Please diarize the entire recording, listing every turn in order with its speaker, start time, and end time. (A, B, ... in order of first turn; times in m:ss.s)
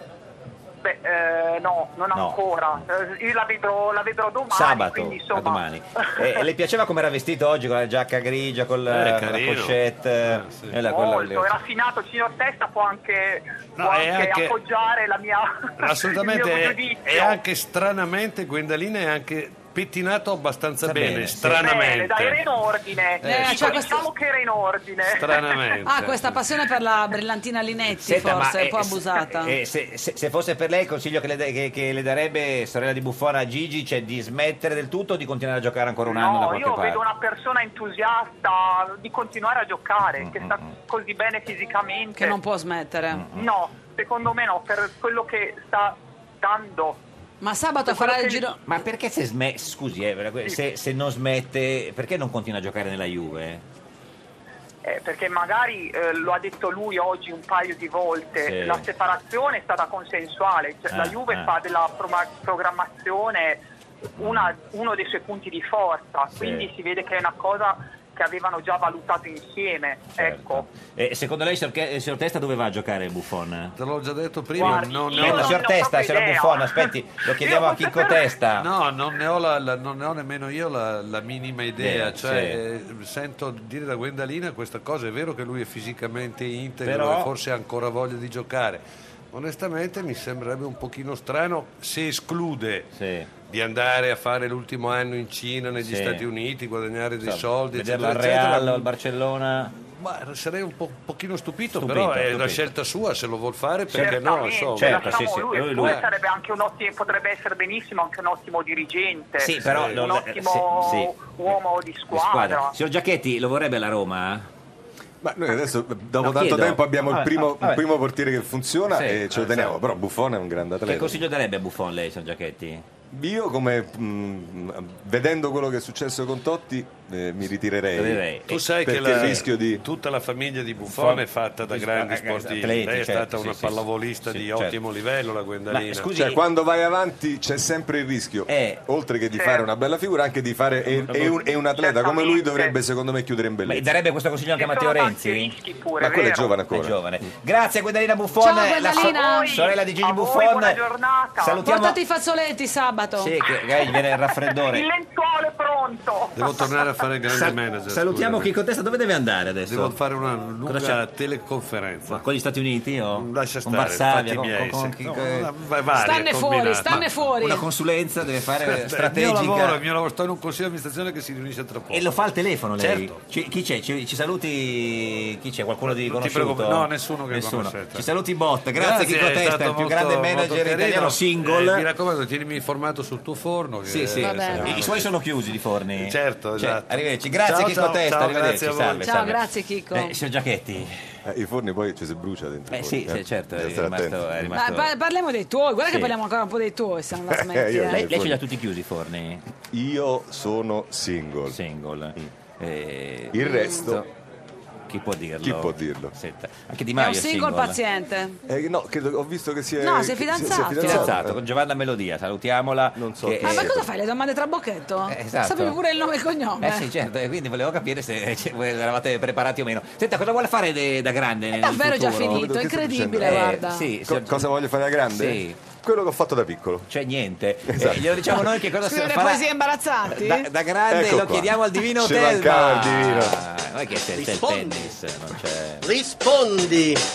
0:00.8-0:06.4 A
0:02.1-0:02.8 B
0:04.5-0:11.5 B
0:08.9-0:10.8 C
0:10.9-0:17.4 A
0:13.8-0:14.5 C
0:15.8-0:22.4 C
0:20.8-0:21.6 B
0:21.4-0:25.8 A
0:23.2-0:24.0 C
0:23.2-0:24.0 D
0:25.0-0:26.4 C
0:25.8-0:29.5 D
0:28.0-0:37.0 B
0:36.1-0:42.4 A
0:40.2-0:40.7 B
0:42.2-0:43.2 D
0:43.1-0:43.5 B
0:43.3-0:47.0 A
0:47.4-0:48.6 D
0:47.8-0:48.5 A
0:48.6-0:53.6 B
0:54.8-1:03.6 A
0:58.4-0:58.9 B
1:00.9-1:01.5 B
1:04.2-1:04.5 B
1:04.2-1:10.6 A
1:06.4-1:06.7 B
1:10.2-1:13.8 B
1:13.8-1:15.7 C
1:14.6-1:16.9 A
1:14.6-1:18.7 B
1:17.4-1:18.2 A
1:18.6-1:32.9 C
1:21.8-1:22.6 B
1:26.8-1:27.3 B
1:33.0-1:33.3 B
1:33.4-1:38.9 C
1:35.8-1:36.3 B
1:37.2-1:39.8 B
1:39.9-1:46.0 C
1:41.8-1:42.7 B
1:43.9-1:46.1 B
1:44.0-1:52.7 A
1:49.4-1:51.5 B
1:49.6-1:50.2 C
1:52.1-1:54.5 B
1:55.2-2:01.2 E
1:56.2-1:57.8 B
1:58.9-1:59.3 B
1:59.3-1:59.7 C
2:00.8-2:02.8 B
2:03.1-2:08.2 E
2:08.0-2:09.4 B
2:08.5-2:16.1 C
2:08.8-2:09.8 E
2:10.8-2:14.8 B
2:15.7-2:16.4 B
2:16.1-2:23.8 E
2:18.5-2:18.8 B
2:19.3-2:19.7 A
2:21.0-2:21.4 B
2:21.7-2:22.8 A
2:23.6-2:25.5 B
2:24.5-2:26.5 A
2:26.0-2:26.9 E
2:26.7-2:30.8 B
2:28.4-2:29.6 D
2:28.9-2:31.6 A
2:31.4-2:32.0 B
2:31.6-2:33.3 D
2:33.2-2:34.9 B
2:33.8-2:37.1 A
2:36.4-2:38.5 C
2:37.3-2:40.0 B
2:39.6-2:42.2 C
2:40.6-2:41.0 B
2:42.1-2:45.5 B
2:43.1-2:47.3 C
2:46.0-2:47.6 D
2:46.9-2:49.8 B
2:48.6-2:52.1 C
2:51.9-3:01.9 B
2:52.8-2:53.2 C
2:55.8-2:58.1 C
2:58.7-3:05.1 C
3:03.8-3:09.4 B
3:04.2-3:04.8 D
3:06.0-3:09.2 C
3:09.0-3:10.1 D
3:09.9-3:11.0 B
3:11.2-3:14.5 E
3:12.7-3:14.9 B
3:14.5-3:18.0 D
3:15.9-3:16.1 B
3:17.3-3:18.4 E
3:18.0-3:19.4 B
3:19.7-3:21.6 E
3:21.5-3:24.1 B
3:23.3-3:24.0 E
3:23.4-3:23.9 D
3:24.9-3:27.8 B
3:25.4-3:26.1 E
3:27.0-3:28.4 D
3:28.4-3:31.4 E
3:29.8-3:31.1 D
3:30.8-3:33.8 B
3:33.0-3:33.7 E
3:33.4-3:36.8 D
3:35.1-3:35.8 B
3:36.6-3:42.5 B
3:41.6-3:43.9 D
3:42.2-3:46.9 E
3:43.2-3:44.5 B
3:45.1-3:45.6 B
3:46.9-3:49.5 B
3:47.7-3:48.4 E
3:48.8-3:50.5 D
3:50.1-3:55.8 B
3:50.9-3:53.4 E
3:54.1-3:55.0 F
3:55.8-3:57.0 F